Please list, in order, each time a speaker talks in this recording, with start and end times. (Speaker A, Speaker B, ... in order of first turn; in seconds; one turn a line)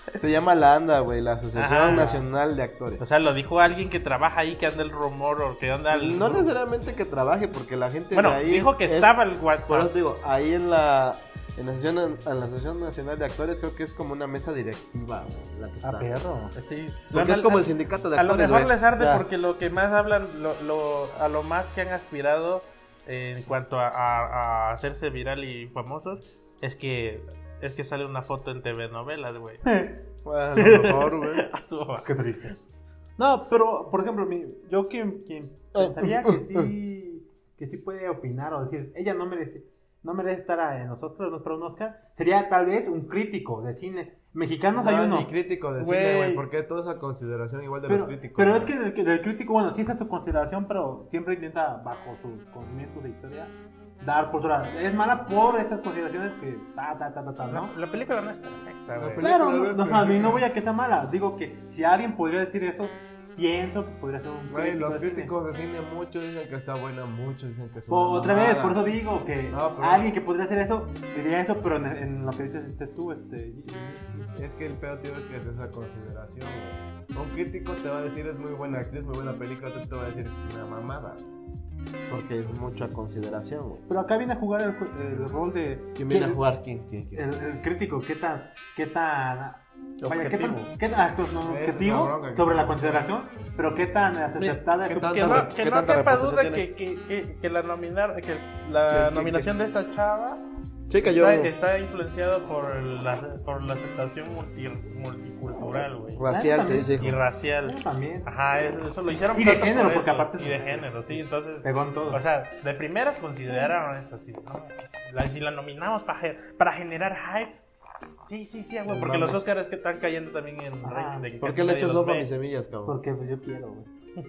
Speaker A: 0.2-3.1
Speaker B: 1.5-2.2
Speaker B: 3.0-6.5
Speaker A: 5.9-16.2
Speaker B: 8.1-9.9
Speaker C: 15.8-16.6
Speaker B: 16.6-29.6
Speaker A: 17.1-19.2
Speaker C: 29.6-30.0
Speaker A: 30.2-31.5
Speaker B: 30.6-32.1
Speaker C: 32.0-32.5
Speaker C: 33.2-45.3
Speaker A: 35.8-36.7
Speaker A: 44.8-48.7
Speaker B: 45.8-46.5
Speaker C: 47.9-57.7
Speaker B: 57.5-59.3
Speaker A: 59.0-60.5
Speaker C: 59.2-65.3
Speaker A: 64.5-68.8
Speaker C: 67.9-74.3
Speaker A: 69.5-70.1
Speaker A: 74.3-81.2
Speaker A: 82.1-83.8
Speaker C: 83.9-86.4
Speaker A: 86.0-87.3
Speaker C: 87.2-95.5
Speaker A: 90.0-90.7
Speaker A: 91.4-93.1
Speaker B: 94.4-100.4
Speaker A: 94.9-96.7
Speaker A: 98.9-99.5
Speaker A: 100.9-101.5
Speaker B: 101.0-106.2
Speaker A: 106.2-107.2
Speaker C: 106.3-106.9
Speaker B: 107.0-117.6
Speaker C: 107.6-108.3
Speaker C: 109.3-112.2
Speaker B: 118.2-122.3
Speaker C: 118.9-119.4
Speaker C: 120.8-121.3
Speaker A: 121.4-123.0
Speaker C: 122.9-123.9